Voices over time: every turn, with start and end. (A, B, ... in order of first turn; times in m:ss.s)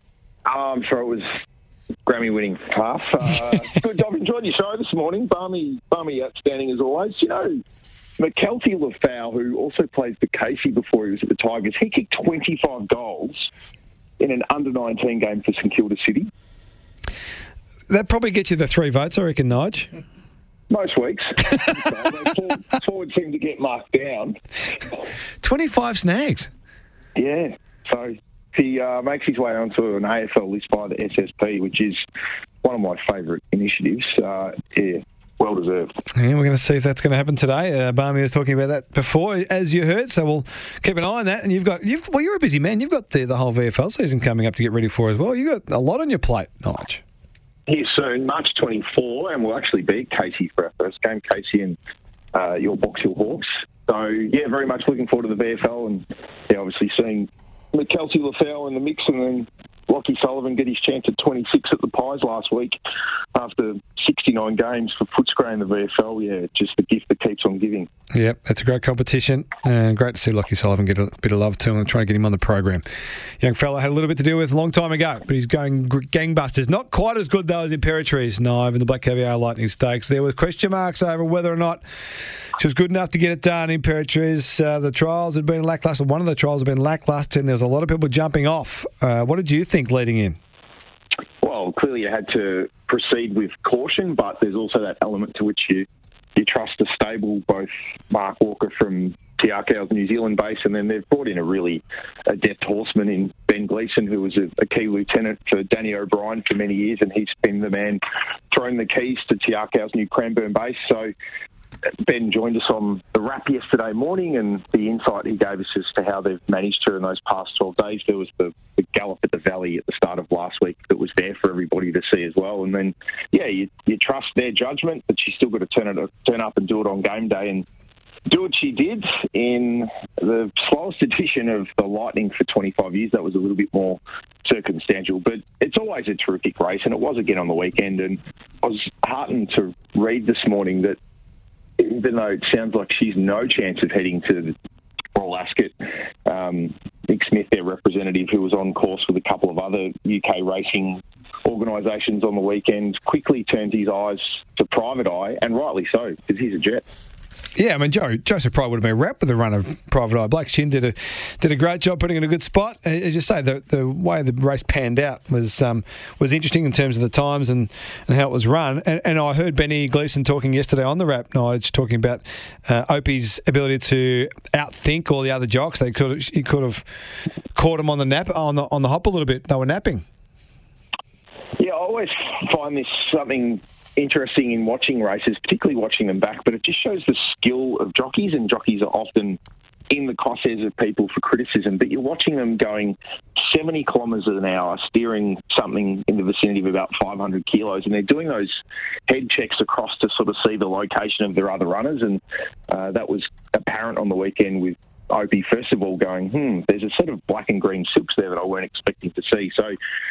0:00.5-0:01.3 A
0:02.1-0:07.6 A
0:08.2-0:13.5 A
0:14.2-0:16.3 A
0:17.9-0:19.9 B
0:20.7-0:24.4 A
0:25.4-0:26.5 B
0:27.2-0:32.0 A
0:32.6-0:35.9 A
0:36.1-0:47.0 B
0:47.7-0:51.8 A
0:52.3-1:02.8 A
1:03.4-1:07.9 A
1:08.1-1:12.8 B
1:13.4-1:21.8 B
1:22.6-1:30.4 B
1:31.4-1:51.1 A
1:52.0-2:07.7 A
2:08.3-2:21.0 A
2:21.8-2:24.5 A
2:25.2-2:25.8 A
2:26.3-2:36.8 A
2:37.6-2:56.8 B
2:57.6-3:00.0 B
3:01.6-3:09.4 A
3:09.9-3:29.8 A